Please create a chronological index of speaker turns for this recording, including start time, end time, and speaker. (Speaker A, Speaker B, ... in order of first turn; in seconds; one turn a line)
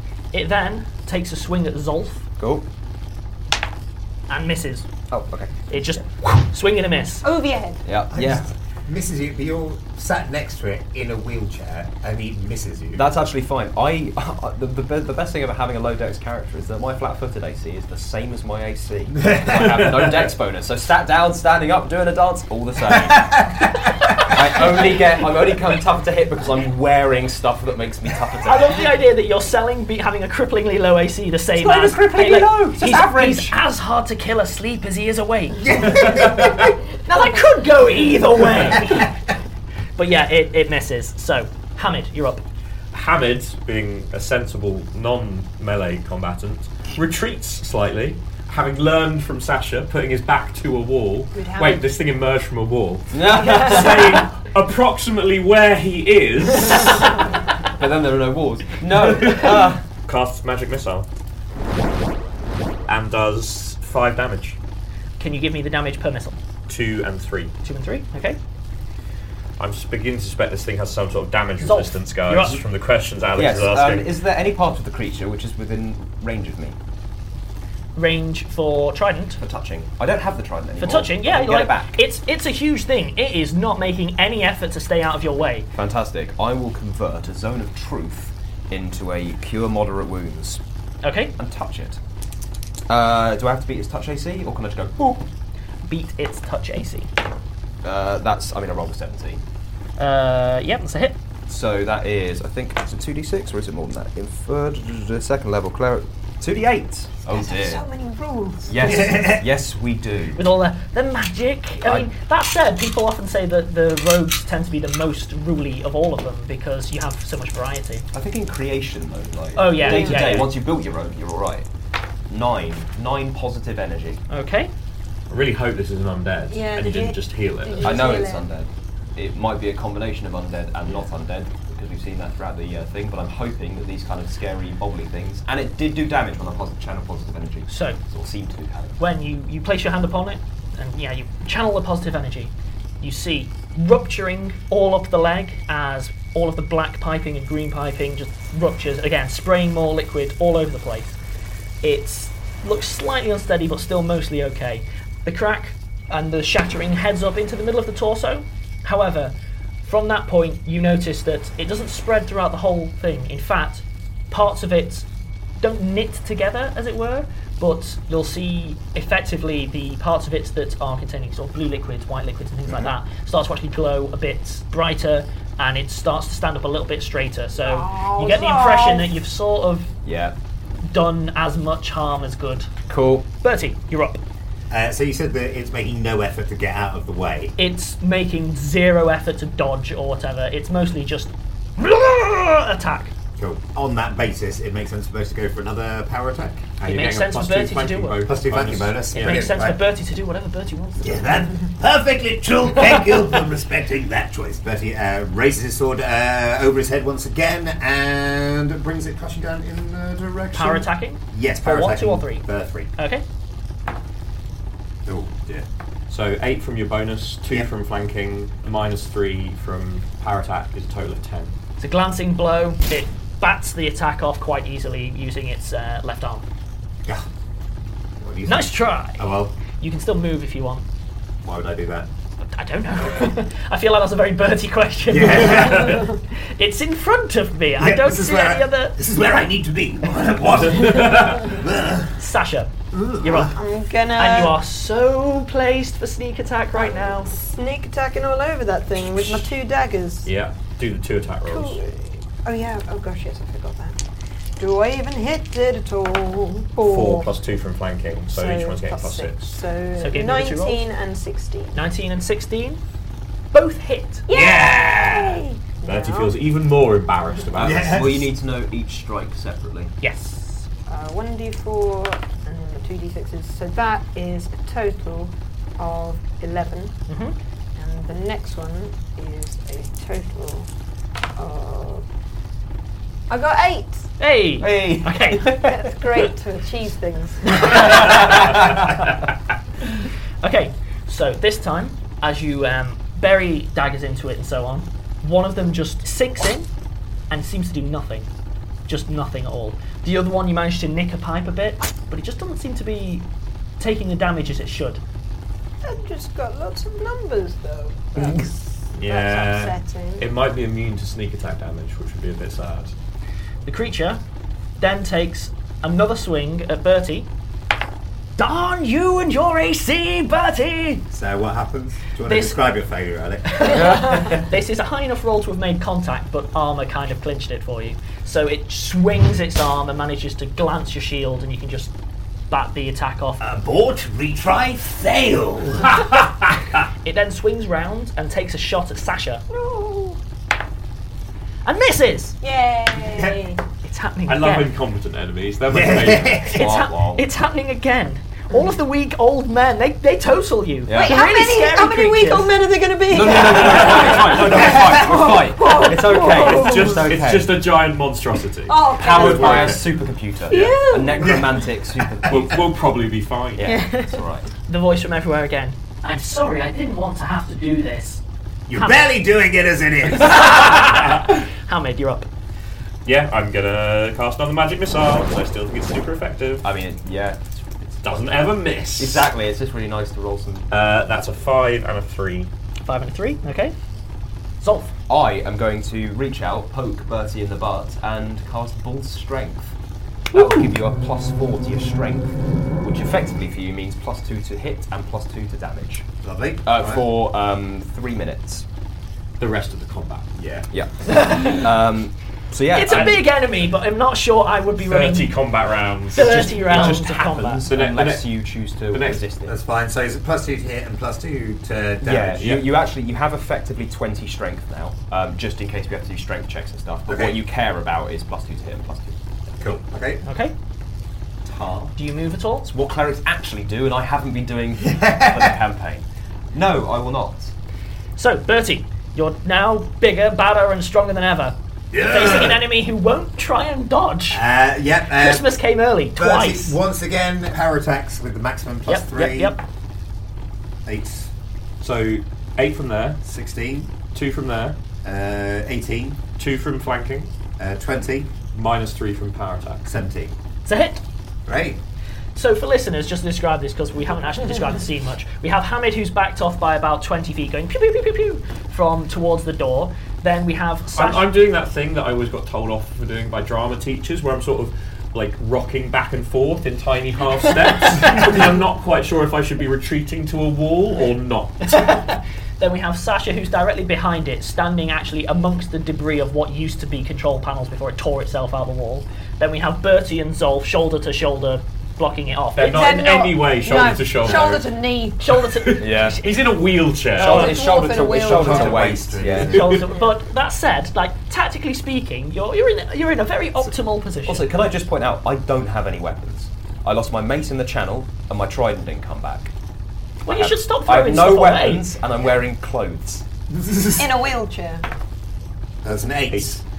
Speaker A: 0.3-2.3
Speaker B: 2.4-2.7
Speaker A: 4.3-4.8
Speaker B: 5.1-5.8
Speaker A: 5.7-7.2
Speaker C: 7.2-7.8
Speaker B: 7.8-8.5
Speaker D: 8.1-13.1
Speaker B: 12.9-23.5
Speaker D: 19.3-19.6
Speaker D: 23.2-23.5
Speaker B: 24.2-28.8
Speaker A: 28.4-36.4
Speaker B: 31.5-33.5
Speaker D: 35.6-36.5
Speaker E: 36.0-36.6
Speaker A: 37.0-39.2
Speaker A: 40.0-42.4
Speaker E: 42.9-57.3
Speaker C: 51.3-52.0
Speaker B: 53.1-54.2
Speaker B: 57.7-59.9
Speaker E: 59.1-61.1
Speaker E: 62.9-64.6
Speaker A: 65.2-66.4
Speaker E: 66.7-67.5
Speaker A: 67.6-68.4
Speaker E: 69.6-74.1
Speaker A: 71.6-72.6
Speaker B: 73.3-76.8
Speaker A: 78.0-79.4
Speaker B: 79.4-82.0
Speaker A: 80.8-85.7
Speaker B: 85.7-90.6
Speaker A: 91.0-91.3
Speaker B: 91.4-92.0
Speaker B: 92.9-95.2
Speaker A: 95.8-97.1
Speaker B: 97.8-99.4
Speaker A: 100.0-101.2
Speaker B: 101.5-107.8
Speaker C: 107.3-109.0
Speaker B: 108.7-110.4
Speaker D: 108.8-109.4
Speaker A: 110.3-118.0
Speaker B: 118.1-121.7
Speaker A: 119.5-120.5
Speaker C: 119.8-120.5
Speaker B: 122.3-124.2
Speaker A: 124.3-124.7
Speaker E: 125.3-128.1
Speaker C: 126.5-128.5
Speaker B: 127.8-139.0
Speaker A: 137.7-138.0
Speaker A: 139.0-151.2
Speaker A: 151.8-165.1
Speaker A: 165.6-179.9
Speaker C: 177.6-179.2
Speaker B: 180.0-180.3
Speaker A: 180.8-182.7
Speaker B: 182.9-183.3
Speaker A: 183.4-184.2
Speaker D: 184.7-187.5
Speaker A: 187.6-193.1
Speaker D: 193.4-197.1
Speaker E: 196.8-199.4
Speaker A: 196.8-198.3
Speaker D: 198.2-199.8
Speaker A: 199.1-201.3
Speaker D: 201.0-212.9
Speaker A: 210.5-212.4
Speaker A: 213.0-213.2
Speaker D: 215.1-215.7
Speaker E: 216.1-221.5
Speaker A: 221.8-226.4
Speaker D: 228.2-229.5
Speaker A: 228.4-230.8
Speaker D: 231.4-232.1
Speaker A: 232.5-239.0
Speaker D: 235.1-236.1
Speaker E: 235.5-236.1
Speaker D: 237.8-242.2
Speaker E: 240.6-241.5
Speaker A: 242.2-243.6
Speaker D: 242.9-243.5
Speaker C: 243.5-244.6
Speaker A: 244.1-247.4
Speaker C: 246.7-250.3
Speaker E: 250.2-251.8
Speaker C: 251.4-254.0
Speaker C: 254.6-257.3
Speaker E: 256.8-259.6
Speaker C: 258.3-261.8
Speaker A: 260.0-260.8
Speaker A: 261.7-262.8
Speaker A: 263.5-264.3
Speaker C: 264.3-266.4
Speaker D: 264.3-265.4
Speaker E: 265.8-268.1
Speaker D: 267.5-268.3
Speaker B: 267.9-269.9
Speaker A: 270.0-270.7
Speaker C: 270.9-277.0
Speaker A: 277.1-277.4
Speaker C: 277.7-280.7
Speaker C: 281.4-282.0
Speaker C: 283.3-284.1
Speaker A: 284.2-285.7
Speaker B: 284.6-285.8
Speaker C: 285.5-288.6
Speaker A: 287.5-289.1
Speaker B: 288.0-288.8
Speaker A: 290.4-296.7
Speaker A: 297.3-298.3
Speaker A: 298.9-303.2
Speaker A: 303.8-305.0
Speaker C: 305.8-310.3
Speaker E: 308.9-312.9
Speaker A: 313.6-314.2
Speaker A: 314.8-317.3
Speaker A: 318.4-321.0
Speaker D: 321.1-323.8
Speaker A: 322.2-322.6
Speaker A: 323.5-331.9
Speaker B: 323.7-324.4
Speaker A: 332.5-333.4
Speaker D: 333.4-336.3
Speaker A: 337.0-339.4
Speaker C: 339.5-340.2
Speaker A: 341.6-342.3
Speaker C: 342.4-343.6
Speaker D: 343.1-343.4
Speaker A: 343.8-344.8
Speaker E: 344.3-346.4
Speaker D: 345.7-346.7
Speaker B: 346.4-347.2
Speaker A: 346.5-352.5
Speaker B: 350.9-351.1
Speaker C: 350.9-357.1
Speaker B: 353.1-357.6
Speaker E: 353.6-354.7
Speaker D: 354.6-355.2
Speaker E: 356.2-359.9
Speaker C: 358.7-359.8
Speaker B: 358.9-362.7
Speaker C: 360.5-361.5
Speaker D: 361.2-362.4
Speaker E: 362.3-363.8
Speaker B: 363.6-364.5
Speaker C: 363.7-364.2
Speaker A: 364.7-368.2
Speaker D: 368.7-371.0
Speaker A: 368.8-369.1
Speaker A: 370.3-372.3
Speaker E: 373.0-376.7
Speaker B: 376.6-378.3
Speaker E: 378.0-379.3
Speaker B: 379.0-380.7
Speaker E: 380.7-382.5
Speaker A: 382.9-383.7
Speaker A: 384.6-384.9
Speaker B: 385.1-389.7
Speaker B: 390.3-396.1
Speaker A: 390.3-390.7
Speaker D: 396.2-397.1
Speaker B: 396.6-398.6
Speaker E: 399.4-400.4
Speaker D: 400.3-400.7
Speaker B: 400.7-403.2
Speaker A: 401.1-401.6
Speaker A: 402.7-405.4
Speaker E: 402.9-403.2
Speaker E: 404.8-408.4
Speaker A: 406.1-407.6
Speaker B: 406.2-409.5
Speaker E: 408.9-409.2
Speaker D: 409.4-412.5
Speaker B: 412.0-419.2
Speaker E: 412.4-412.6
Speaker D: 417.1-417.4
Speaker D: 419.6-420.2
Speaker A: 420.2-420.5
Speaker D: 421.4-421.9
Speaker A: 421.9-422.7
Speaker B: 422.6-427.5
Speaker D: 424.8-425.5
Speaker A: 428.2-434.4
Speaker D: 431.9-432.6
Speaker D: 434.3-435.5
Speaker A: 435.1-436.8
Speaker D: 436.1-439.6
Speaker A: 438.9-439.6
Speaker D: 440.8-441.3
Speaker E: 441.8-443.2
Speaker D: 443.2-443.9
Speaker E: 444.1-444.8
Speaker D: 445.0-446.2
Speaker E: 446.4-447.3
Speaker D: 447.6-448.4
Speaker E: 448.5-449.9
Speaker D: 449.9-450.4
Speaker A: 450.6-451.0
Speaker D: 451.5-451.8
Speaker A: 452.3-461.3
Speaker E: 460.9-471.8
Speaker A: 471.6-482.9
Speaker E: 482.6-484.7
Speaker C: 482.6-485.4
Speaker A: 485.2-486.6
Speaker B: 485.8-486.2
Speaker E: 486.1-487.6
Speaker B: 487.1-489.8
Speaker C: 487.2-489.1
Speaker A: 487.2-487.5
Speaker D: 488.1-489.9
Speaker A: 489.4-494.5
Speaker B: 494.2-499.5
Speaker A: 500.2-501.9
Speaker B: 500.3-503.2
Speaker D: 503.5-504.1
Speaker C: 503.9-504.8
Speaker D: 505.8-506.6